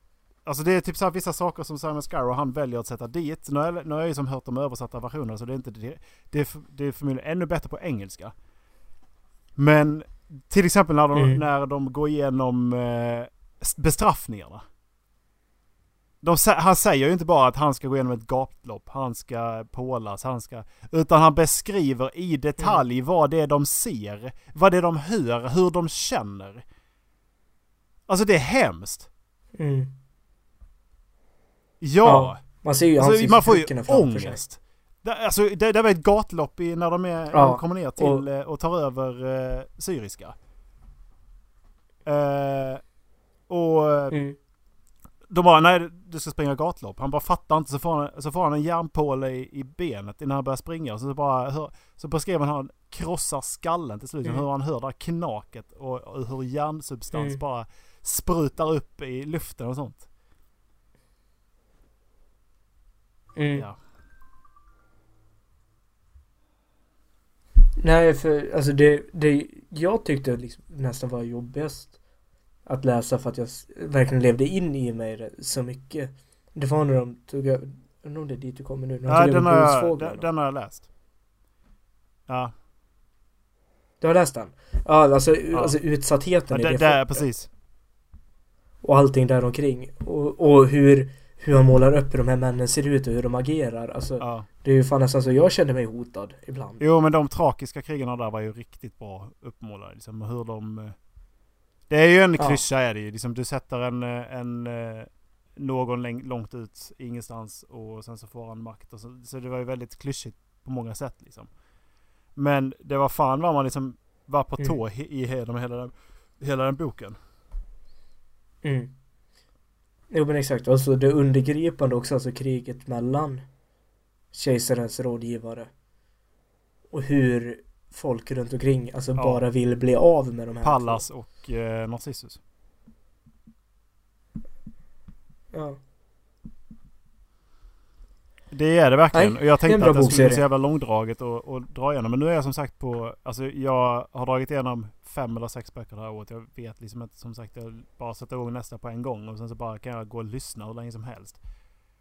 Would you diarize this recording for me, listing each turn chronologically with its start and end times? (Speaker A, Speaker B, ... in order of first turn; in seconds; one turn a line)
Speaker A: 0.4-8.3
Speaker A: 9.6-14.6
Speaker B: 11.1-11.4
Speaker A: 16.2-26.6
Speaker A: 28.1-29.1
Speaker B: 29.6-29.9
Speaker A: 31.8-32.4
Speaker B: 32.0-34.4
Speaker A: 33.0-40.3
Speaker B: 37.3-38.2
Speaker A: 42.0-42.8
Speaker A: 43.5-44.1
Speaker A: 45.3-60.1
Speaker B: 57.1-57.4
Speaker B: 63.4-63.6
Speaker B: 67.8-71.9
Speaker B: 72.7-80.2
Speaker A: 79.0-80.9
Speaker A: 82.3-82.5
Speaker B: 84.0-87.3
Speaker A: 85.5-85.8
Speaker A: 86.5-87.5
Speaker B: 88.8-96.8
Speaker A: 94.2-94.5
Speaker A: 96.8-100.9
Speaker A: 101.9-111.5
Speaker A: 112.3-117.2
Speaker B: 118.6-118.9
Speaker B: 120.1-123.4
Speaker B: 124.3-125.7
Speaker B: 126.9-131.0
Speaker A: 129.2-129.4
Speaker A: 130.6-132.4
Speaker B: 135.5-135.8
Speaker A: 138.5-151.4
Speaker B: 139.1-140.4